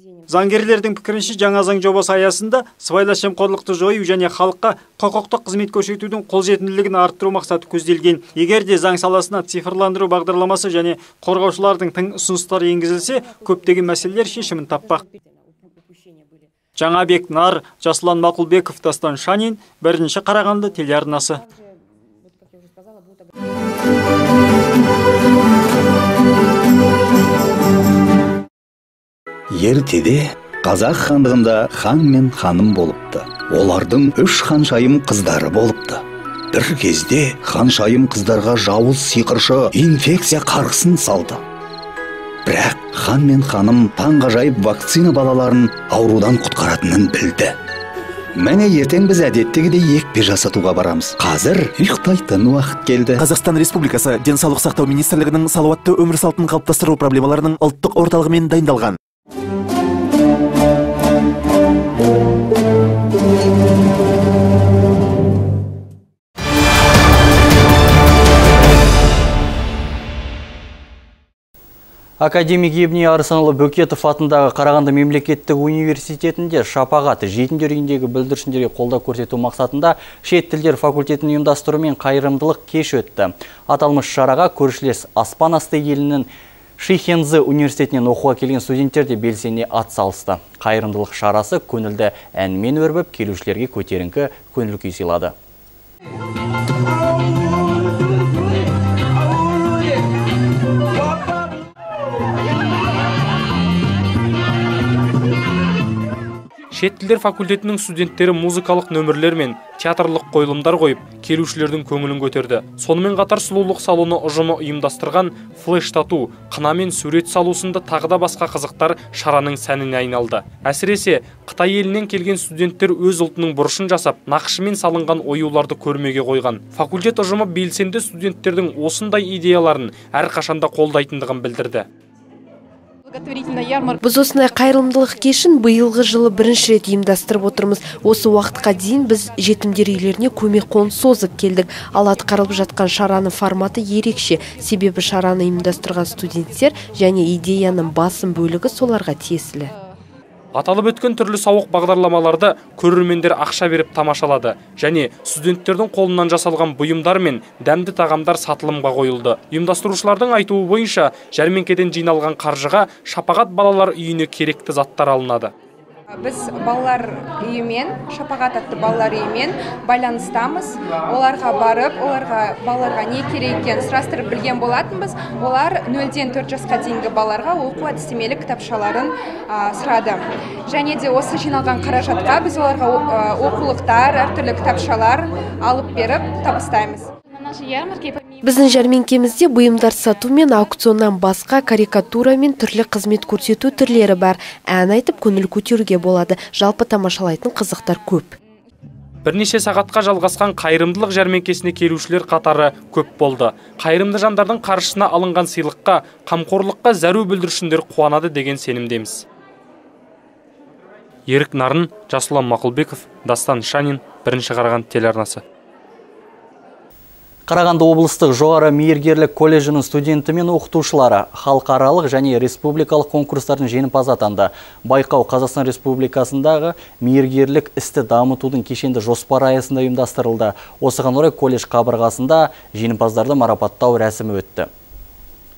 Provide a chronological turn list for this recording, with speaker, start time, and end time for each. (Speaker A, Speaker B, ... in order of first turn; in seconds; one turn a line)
Speaker A: 0.3-15.0
Speaker A: 16.8-21.4
Speaker B: 29.5-41.4
Speaker B: 42.5-47.5
Speaker B: 48.4-53.3
Speaker C: 53.2-59.0
Speaker D: 72.2-95.3
Speaker E: 106.7-131.8
Speaker F: 133.2-133.9
Speaker G: 134.0-149.7
Speaker E: 150.6-165.5
Speaker F: 166.2-188.2
Speaker G: 188.4-198.3
Speaker E: 199.2-209.2
Speaker E: 211.3-215.4
Speaker D: 217.5-234.7